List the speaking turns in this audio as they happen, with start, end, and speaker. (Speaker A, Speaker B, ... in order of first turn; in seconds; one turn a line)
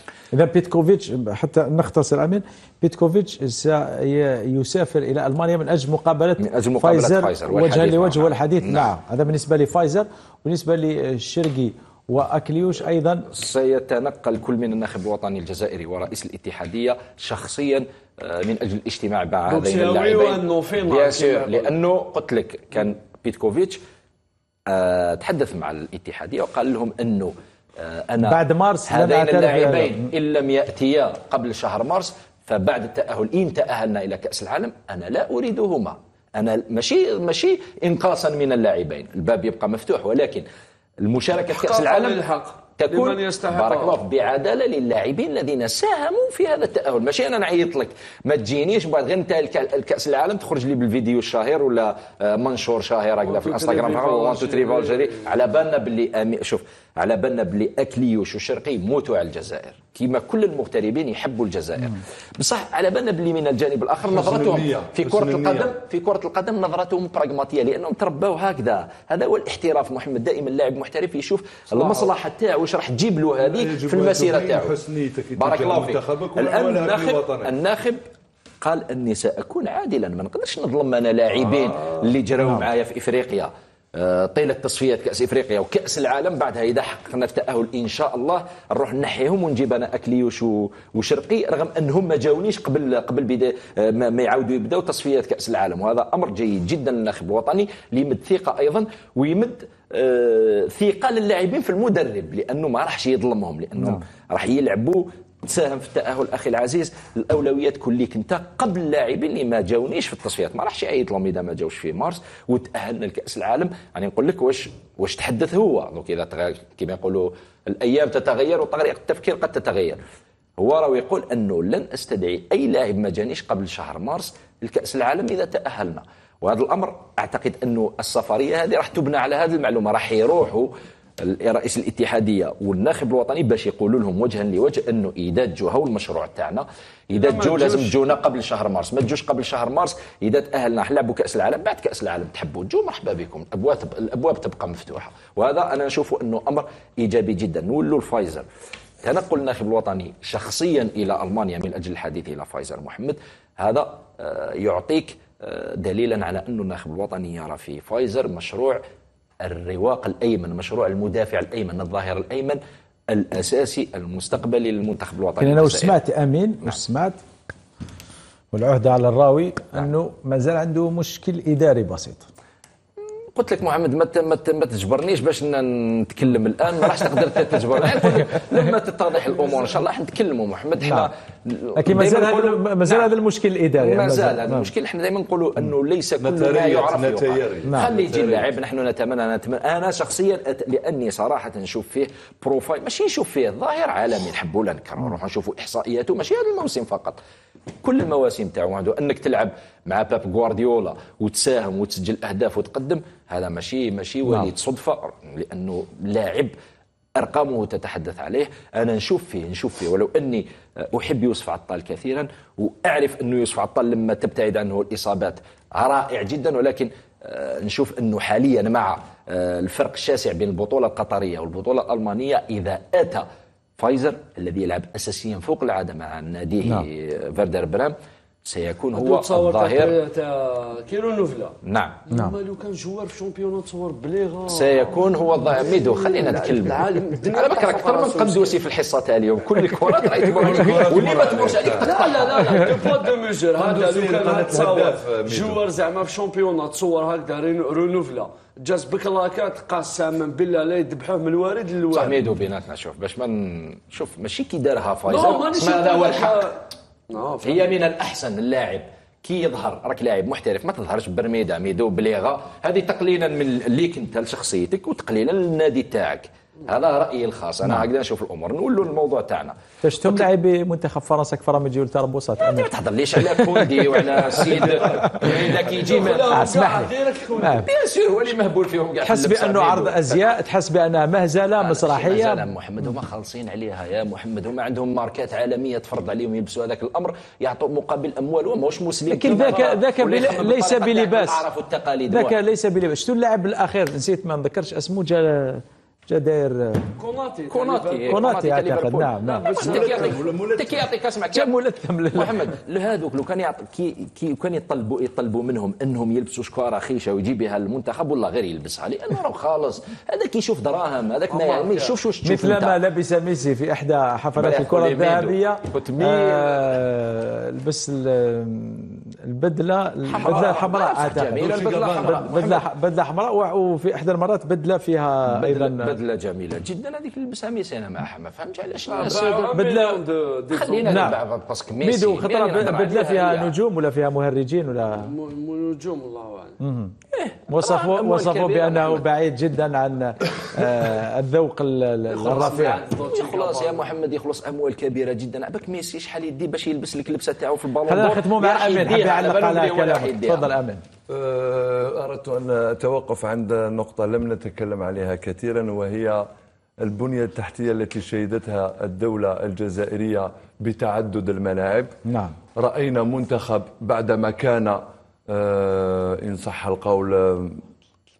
Speaker A: 0.3-13.3
Speaker B: 6.4-8.9
Speaker B: 13.3-23.8
Speaker C: 19.5-21.7
Speaker B: 24.7-40.4
Speaker A: 28.2-30.0
Speaker B: 41.0-42.2
Speaker C: 41.4-44.0
Speaker B: 42.8-74.7
Speaker C: 53.2-55.3
Speaker D: 64.0-65.7
Speaker D: 71.7-72.1
Speaker D: 73.4-77.5
Speaker B: 75.3-78.0
Speaker B: 78.6-120.0
Speaker B: 120.6-130.7
Speaker B: 131.2-148.4
Speaker C: 137.1-138.0
Speaker B: 149.0-158.8
Speaker B: 159.4-162.6
Speaker B: 163.1-166.0
Speaker A: 165.4-167.2
Speaker A: 168.5-172.3
Speaker B: 173.3-183.1
Speaker A: 180.8-181.1
Speaker A: 181.8-184.7
Speaker B: 183.8-197.2
Speaker D: 186.2-188.5
Speaker B: 197.8-206.5
Speaker B: 207.2-223.2
Speaker B: 223.8-229.9
Speaker C: 228.9-238.6
Speaker B: 231.6-232.0
Speaker B: 234.5-242.7
Speaker D: 240.3-241.8
Speaker C: 240.8-252.2
Speaker D: 243.5-245.7
Speaker B: 251.9-256.4
Speaker C: 255.1-257.8
Speaker B: 257.4-270.3
Speaker A: 269.8-274.2
Speaker B: 272.4-276.4
Speaker C: 274.5-277.6
Speaker A: 274.8-275.3
Speaker A: 276.3-276.9
Speaker A: 277.4-277.7
Speaker B: 277.5-280.3
Speaker A: 279.0-282.4
Speaker B: 281.5-292.4
Speaker A: 289.1-291.4
Speaker A: 292.1-296.9
Speaker C: 297.0-298.2
Speaker B: 297.5-301.6
Speaker A: 298.1-299.6
Speaker C: 299.4-300.2
Speaker D: 299.5-300.9
Speaker A: 301.3-302.5
Speaker B: 302.1-312.8
Speaker C: 311.3-311.9
Speaker A: 312.2-325.9
Speaker B: 314.4-316.7
Speaker B: 320.1-322.6
Speaker D: 321.4-322.3
Speaker B: 325.3-329.6
Speaker C: 328.9-331.1
Speaker A: 329.4-330.0
Speaker B: 330.5-333.6
Speaker A: 330.9-331.2
Speaker A: 331.8-335.1
Speaker C: 334.9-336.6
Speaker A: 336.6-336.9
Speaker B: 337.1-339.1
Speaker A: 337.5-342.8
Speaker C: 342.1-343.9
Speaker B: 343.0-350.5
Speaker A: 347.9-350.8
Speaker D: 351.1-356.2
Speaker D: 356.8-361.9
Speaker A: 362.0-362.4
Speaker D: 362.5-367.6